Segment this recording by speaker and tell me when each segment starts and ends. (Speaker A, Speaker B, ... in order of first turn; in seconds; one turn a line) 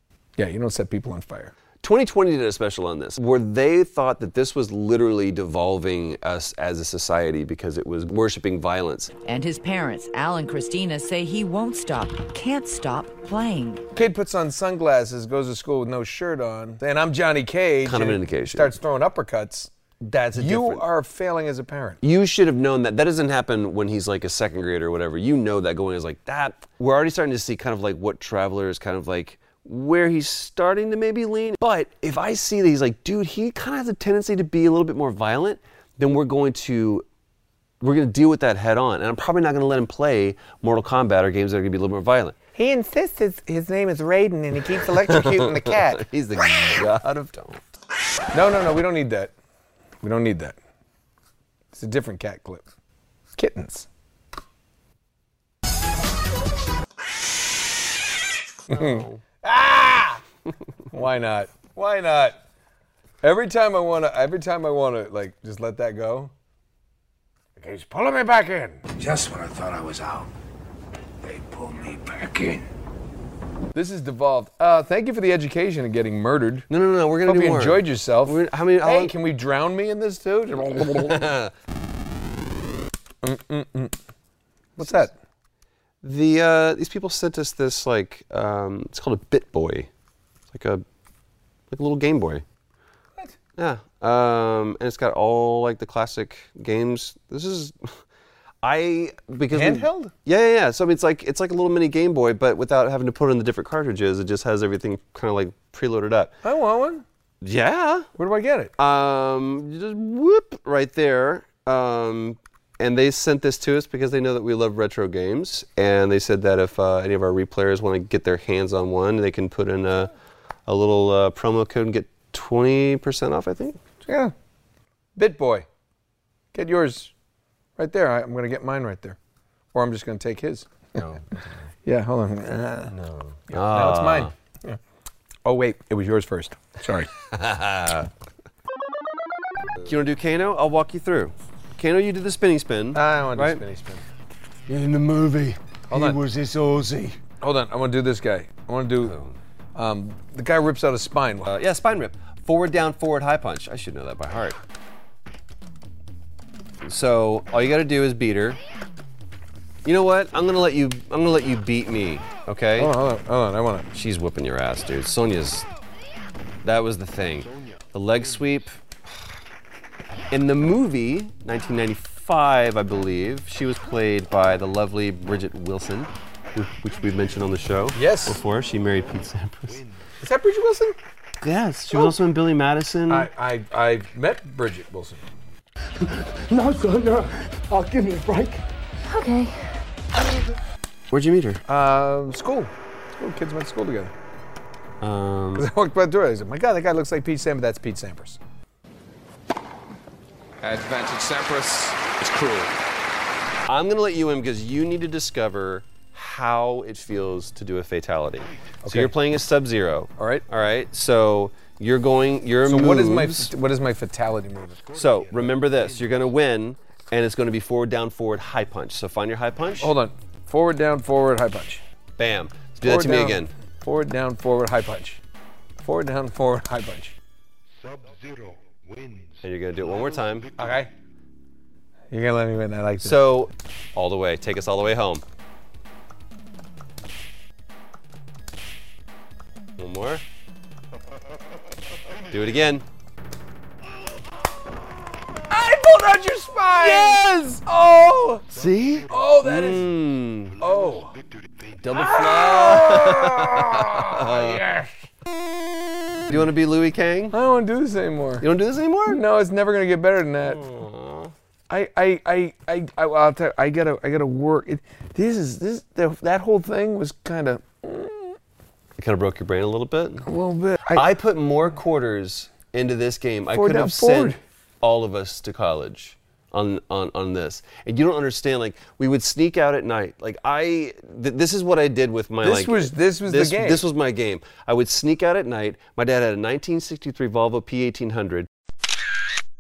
Speaker A: 0.4-1.5
Speaker B: 1.8-9.1
Speaker C: 9.2-13.8
Speaker A: 13.9-19.7
Speaker B: 17.8-18.8
Speaker B: 20.0-20.8
Speaker A: 20.3-22.0
Speaker B: 22.0-37.0
Speaker B: 37.8-42.4
Speaker A: 42.5-46.0
Speaker B: 45.0-47.6
Speaker A: 48.3-49.3
Speaker A: 50.0-50.6
Speaker A: 51.7-52.6
Speaker A: 53.4-53.9
Speaker B: 58.7-59.2
Speaker A: 58.7-60.2
Speaker A: 60.9-62.4
Speaker A: 63.2-66.3
Speaker A: 67.6-70.3
Speaker A: 71.2-72.6
Speaker A: 73.7-76.7
Speaker B: 76.7-79.2
Speaker A: 77.2-81.3
Speaker B: 80.7-81.5
Speaker A: 83.2-84.0
Speaker A: 84.8-85.1
Speaker B: 84.8-85.1
Speaker B: 86.0-89.9
Speaker B: 90.5-90.8
Speaker B: 91.7-92.4
Speaker B: 93.6-97.9
Speaker B: 98.6-106.3
Speaker A: 99.5-100.1
Speaker A: 106.4-107.0
Speaker B: 107.4-108.1
Speaker A: 108.2-108.7
Speaker B: 108.8-120.1
Speaker B: 120.7-123.8
Speaker A: 124.0-124.3
Speaker A: 125.2-125.7
Speaker A: 126.5-127.1
Speaker A: 127.8-129.2
Speaker A: 129.7-130.8
Speaker B: 130.9-131.5
Speaker A: 131.8-132.9
Speaker B: 132.9-134.3
Speaker A: 133.5-134.8
Speaker A: 135.4-137.1
Speaker B: 137.2-138.1
Speaker B: 139.8-143.6
Speaker A: 142.9-144.0
Speaker B: 144.7-147.2
Speaker A: 145.9-146.2
Speaker A: 147.4-149.2
Speaker B: 149.0-149.3
Speaker A: 149.7-151.5
Speaker B: 151.4-154.6
Speaker B: 156.8-158.6
Speaker B: 159.8-162.9
Speaker A: 162.8-163.9
Speaker B: 163.9-165.7
Speaker B: 166.6-168.8
Speaker B: 170.3-179.8
Speaker A: 177.9-178.4
Speaker A: 180.2-181.0
Speaker B: 181.4-183.3
Speaker A: 183.1-185.2
Speaker D: 186.0-189.6
Speaker B: 191.1-191.6
Speaker A: 191.7-194.1
Speaker B: 195.0-195.7
Speaker A: 195.6-198.4
Speaker E: 200.6-202.7
Speaker B: 203.7-213.5
Speaker A: 208.8-209.1
Speaker A: 210.2-210.4
Speaker A: 212.6-214.9
Speaker B: 214.9-219.9
Speaker A: 219.8-221.8
Speaker B: 222.2-223.5
Speaker A: 222.8-225.2
Speaker A: 225.8-227.2
Speaker B: 229.4-230.5
Speaker A: 230.6-230.9
Speaker A: 232.1-233.2
Speaker B: 233.0-235.2
Speaker B: 239.8-240.2
Speaker B: 242.3-242.8
Speaker A: 245.5-248.4
Speaker B: 246.8-247.6
Speaker B: 248.5-250.6
Speaker A: 249.1-249.9
Speaker A: 250.6-251.1
Speaker B: 251.8-254.6
Speaker A: 251.9-255.0
Speaker B: 256.3-257.4
Speaker A: 257.3-258.5
Speaker B: 258.4-259.2
Speaker A: 259.1-260.6
Speaker B: 260.4-261.3
Speaker A: 261.7-268.4
Speaker B: 269.0-270.2
Speaker A: 270.2-271.1
Speaker B: 270.9-288.5
Speaker A: 273.5-274.4
Speaker A: 282.4-283.8